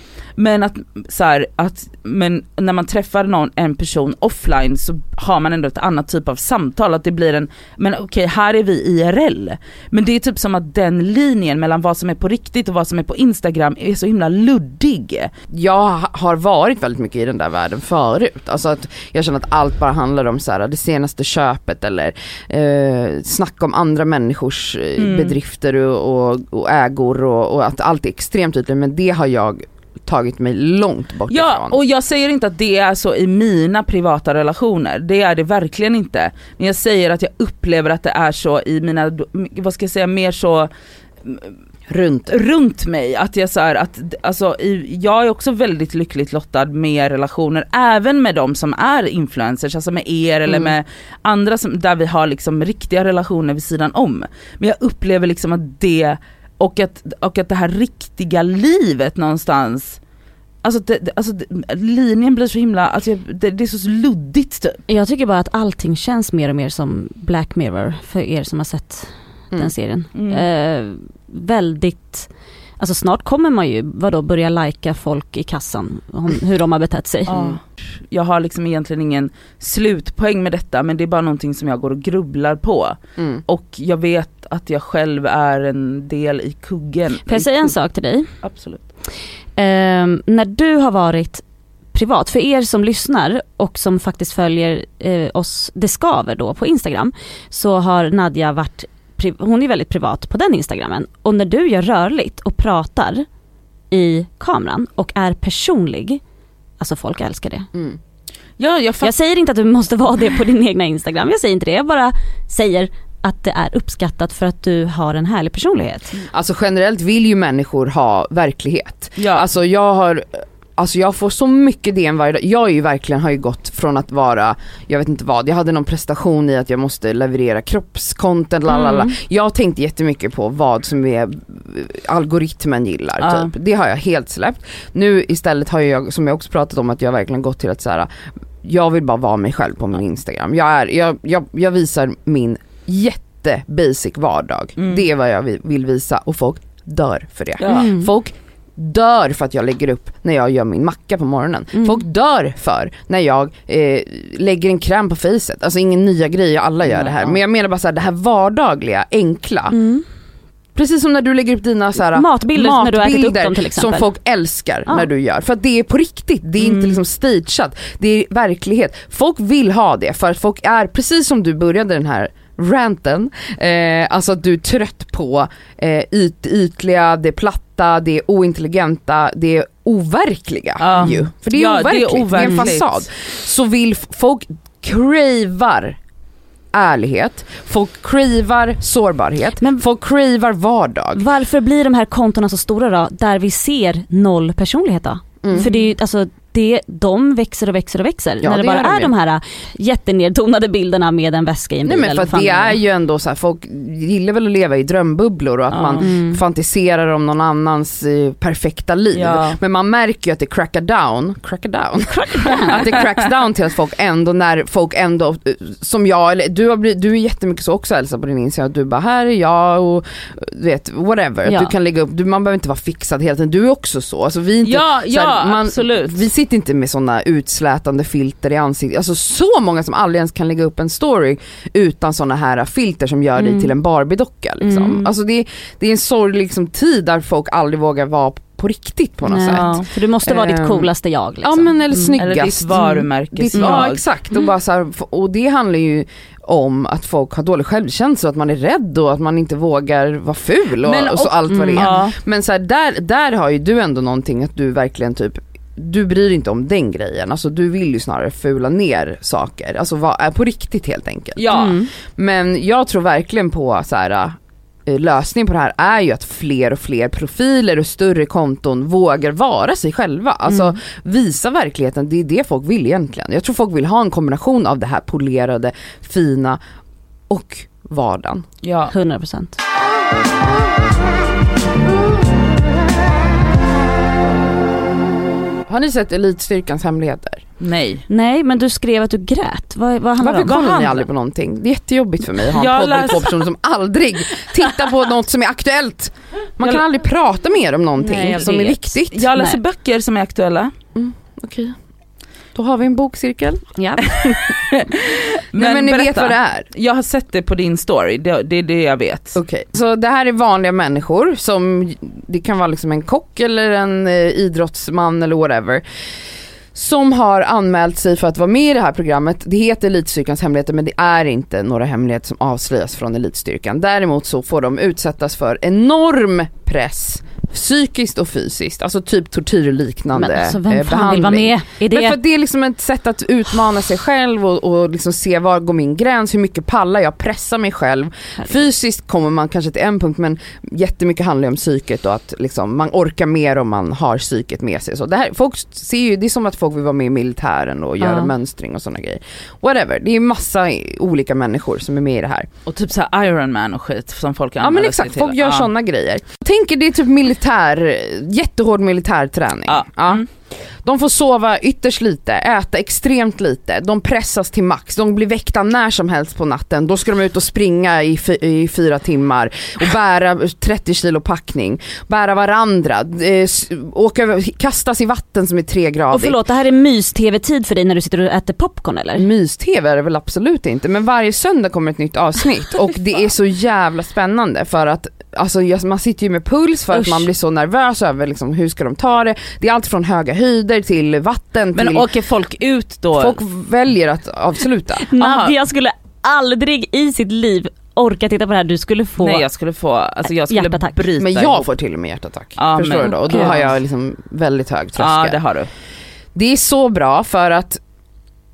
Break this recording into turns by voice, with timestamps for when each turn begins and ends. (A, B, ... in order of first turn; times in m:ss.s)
0:00.4-0:15.3 A
0:15.5-0:31.8 B
0:25.0-0:25.4 A
0:31.3-0:40.7 A
0:41.2-0:41.5 A
0:41.9-0:42.3 B
0:42.3-1:00.0 A
1:00.6-1:04.8 A
1:04.9-1:12.3 C
1:10.1-1:10.4 A
1:12.8-1:17.4 C
1:17.3-1:27.7 A
1:23.2-1:23.4 B
1:27.2-1:28.3 C
1:28.4-1:28.8 A
1:29.6-1:31.4 C
1:31.9-1:43.2 C
1:43.9-1:46.2 C
1:46.8-1:47.7 C
1:48.6-1:49.1 A
1:49.0-1:56.2 C
1:56.2-2:18.1 B
1:59.2-1:59.4 A
2:08.7-2:09.1 A
2:13.2-2:13.5 A
2:18.6-2:39.8 B
2:24.8-2:25.0 A
2:27.6-2:27.9 A
2:27.7-2:28.1 C
2:31.7-2:32.0 C
2:36.9-2:37.4 A
2:39.7-2:40.0 C
2:40.7-3:06.0 B
2:42.1-2:44.1 C
3:00.8-3:03.0 A
3:02.4-3:02.7 C
3:06.7-3:11.2 B
3:11.1-3:22.8 C
3:15.4-3:15.7 B
3:18.4-3:19.1 B
3:21.8-4:00.9 B
3:25.7-3:26.0 A
3:26.0-3:26.4 C
3:29.1-3:29.6 A
3:32.1-3:32.8 C
3:41.4-3:41.7 C
3:44.6-3:46.2 A
3:53.4-3:53.7 C
3:54.6-3:55.1 C
3:59.3-4:02.2 C
3:59.5-3:59.8 A
4:01.4-4:36.6 B
4:02.2-4:04.0 A
4:02.7-4:04.4 C
4:10.8-4:12.1 A
4:11.5-4:12.0 C
4:21.4-4:21.8 A
4:21.5-4:21.9 C
4:30.5-4:30.7 C
4:37.3-4:38.5 B
4:38.6-4:38.9 A
4:38.9-4:39.6 C
4:45.6-4:47.4 B
4:47.6-4:48.0 A
4:48.1-4:50.6 C
4:50.2-4:59.3 B
4:50.4-4:51.0 A
4:52.5-4:53.4 A
4:58.0-4:58.8 C
4:58.3-5:00.7 A
5:00.9-5:01.8 B
5:02.5-5:04.4 B
5:03.8-5:04.2 C
5:04.1-5:09.4 A
5:05.5-5:06.7 B
5:09.3-5:15.8 B
5:16.7-5:52.5 B
5:30.1-5:32.2 C
5:48.0-5:48.3 C
5:52.6-5:55.7 A
5:54.6-6:00.2 B
5:59.7-6:00.2 A
6:00.8-6:16.4 B
6:16.1-6:19.3 C
6:19.1-6:32.1 B
6:26.9-6:27.3 C
6:31.7-6:33.4 A
6:33.1-6:35.1 B
6:35.0-6:39.4 C
6:35.2-6:35.5 A
6:39.2-6:41.7 A
6:40.2-6:41.0 C
6:41.2-6:45.4 B
6:42.6-6:43.7 A
6:43.0-6:43.6 C
6:45.0-6:45.7 A
6:46.3-6:47.8 B